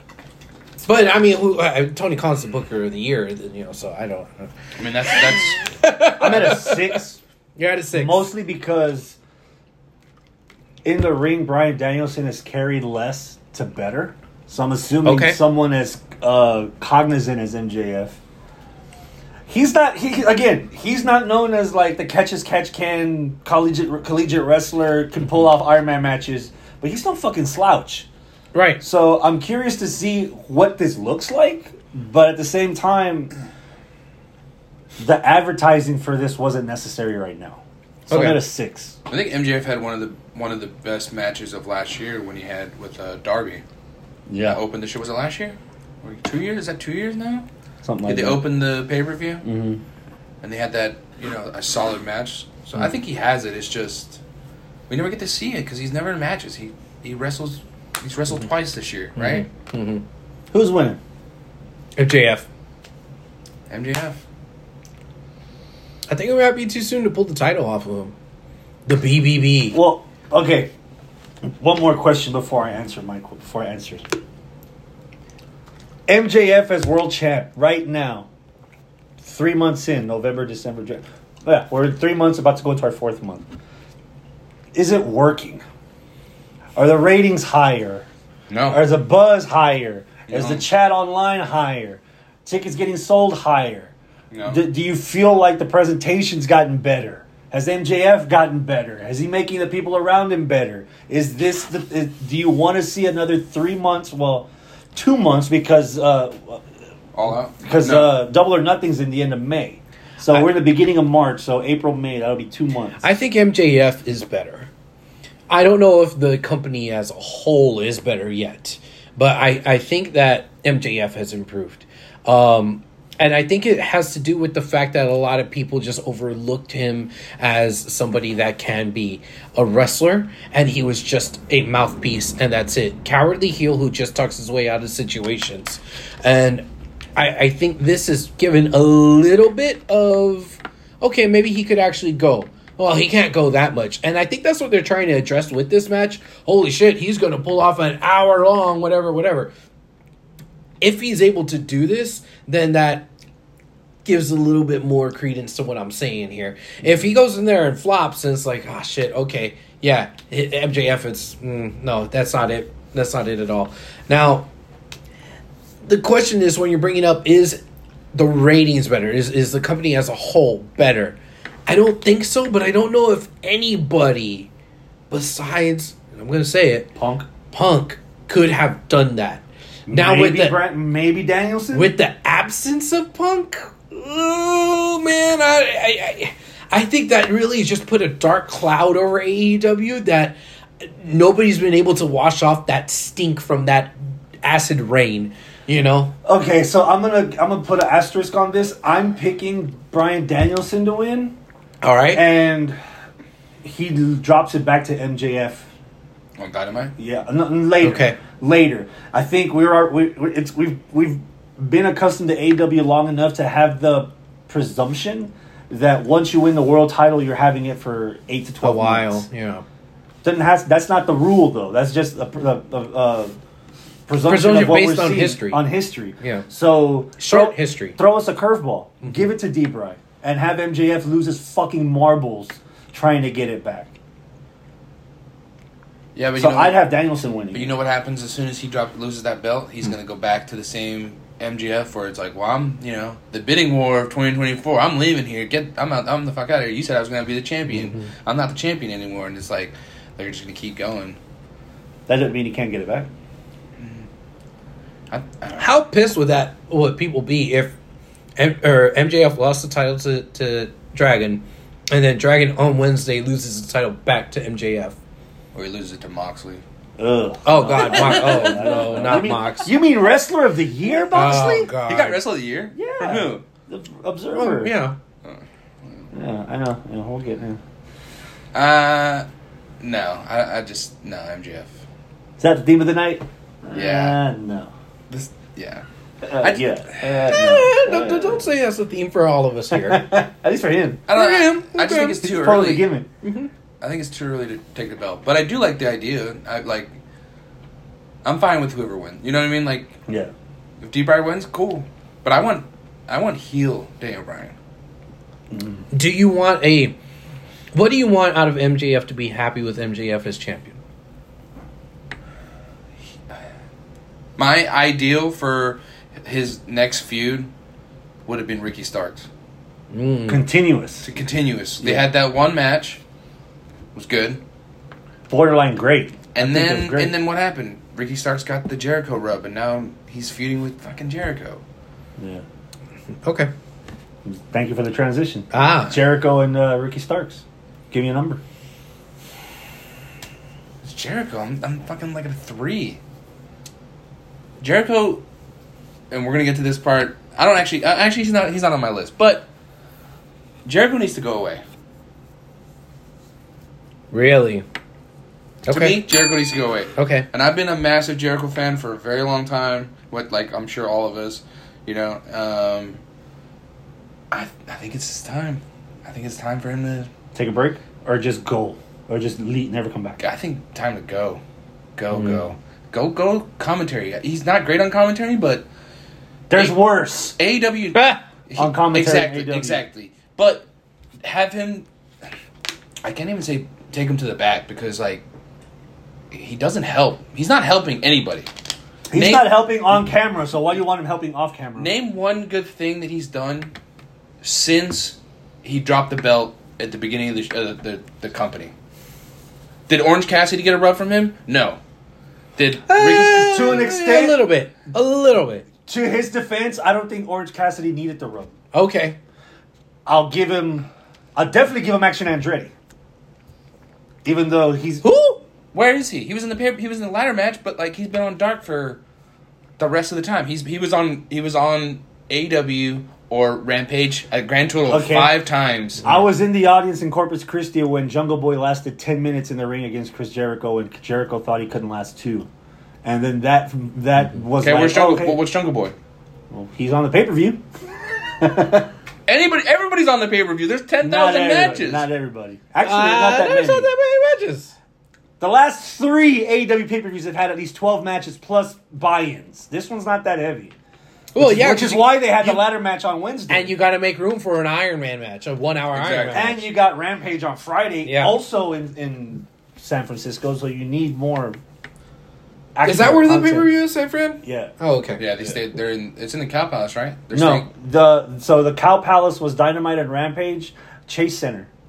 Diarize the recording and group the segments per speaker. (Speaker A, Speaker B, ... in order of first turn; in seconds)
Speaker A: 0.8-4.5, 5.1-7.0, 7.6-8.3, 15.0-15.4, 28.5-28.8, 38.1-38.4, 59.2-60.0, 62.0-62.5, 66.1-68.2, 68.9-69.8, 113.0-114.7, 115.5-149.5, 150.8-153.1, 154.1-164.5, 165.8-167.6, 168.1-174.5, 175.1-176.9, 177.5-180.6, 181.7-196.1, 201.8-202.3, 207.8-208.2, 218.6-219.6, 224.2-225.6, 226.2-226.5, 227.2-228.0, 229.0-229.3, 255.6-257.8, 258.4-265.0, 267.4-269.7, 271.1-272.2, 274.3-275.0, 287.3-290.1, 291.1-292.2, 293.2-293.5, 305.9-306.9, 307.7-310.8, 319.9-320.4, 333.2-333.5, 335.5-336.0, 354.1-354.6, 355.7-356.0, 357.0-357.3, 377.9-378.2, 402.9-405.7, 408.7-409.2, 415.0-415.4, 442.8-444.8, 451.4-452.6, 453.5-456.7, 458.1-458.4, 462.8-465.2
Speaker B: 4.8-5.7, 39.1-43.6, 44.4-47.5, 48.1-49.5, 50.4-54.2, 54.9-59.5, 63.7-64.2, 88.5-88.8, 90.3-90.6, 94.3-94.6, 107.1-108.1, 206.4-206.9, 236.2-236.8, 237.5-251.2, 253.8-254.1, 255.1-255.7, 265.5-266.6, 267.8-269.0, 271.1-273.4, 275.2-276.1, 278.5-279.3, 279.8-281.7, 283.7-284.2, 285.1-285.9, 286.4-287.2, 291.1-292.9, 293.8-296.9, 298.2-300.0, 300.8-304.6, 314.4-317.5, 318.3-319.3, 321.0-323.0, 323.9-324.4, 326.4-331.6, 340.8-343.0, 344.6-345.2, 346.1-349.5, 350.6-351.6, 355.7-363.0, 364.3-367.1, 370.2-371.4, 372.0-375.7, 377.4-380.7, 381.2-381.9, 383.0-385.2, 386.3-388.5, 389.1-389.5, 391.8-393.7, 394.4-398.7, 399.9-401.8, 402.6-403.6, 415.7-419.0, 419.8-426.1, 434.6-435.9, 439.3-442.1, 455.9-456.6, 465.2-467.7
Speaker C: 6.2-7.2, 7.9-9.2, 10.8-18.2, 19.5-28.1, 28.8-33.3, 35.0-39.0, 44.3-44.6, 47.8-48.4, 49.4-49.8, 60.5-61.0, 69.7-70.7, 71.5-74.1, 76.1-78.3, 79.2-83.5, 84.7-85.6, 86.8-88.1, 88.7-93.9, 94.5-106.6, 107.6-113.0, 177.0-177.3, 179.9-181.9, 196.2-201.4, 202.1-202.8, 203.6-205.7, 207.0-219.2, 220.2-223.4, 224.1-234.0, 236.4-237.8, 252.1-253.1, 267.0-271.7, 272.7-274.8, 276.1-277.6, 282.4-284.7, 286.2-288.4, 289.7-291.1, 292.2-293.1, 300.1-300.3, 305.5-305.9, 320.3-321.1, 321.8-322.1, 325.3-327.1, 332.2-332.4, 334.2-338.4, 367.3-370.2, 376.5-377.4, 378.6-379.8, 389.1-391.9, 403.1-404.5, 405.9-408.5, 410.1-412.7, 414.2-415.1, 424.9-425.4, 426.0-432.5, 433.0-435.4, 436.5-437.6, 438.3-438.9, 441.0-443.9, 445.4-450.8, 451.4-453.8, 456.3-461.6, 462.8-463.7, 464.4-464.7, 467.3-471.7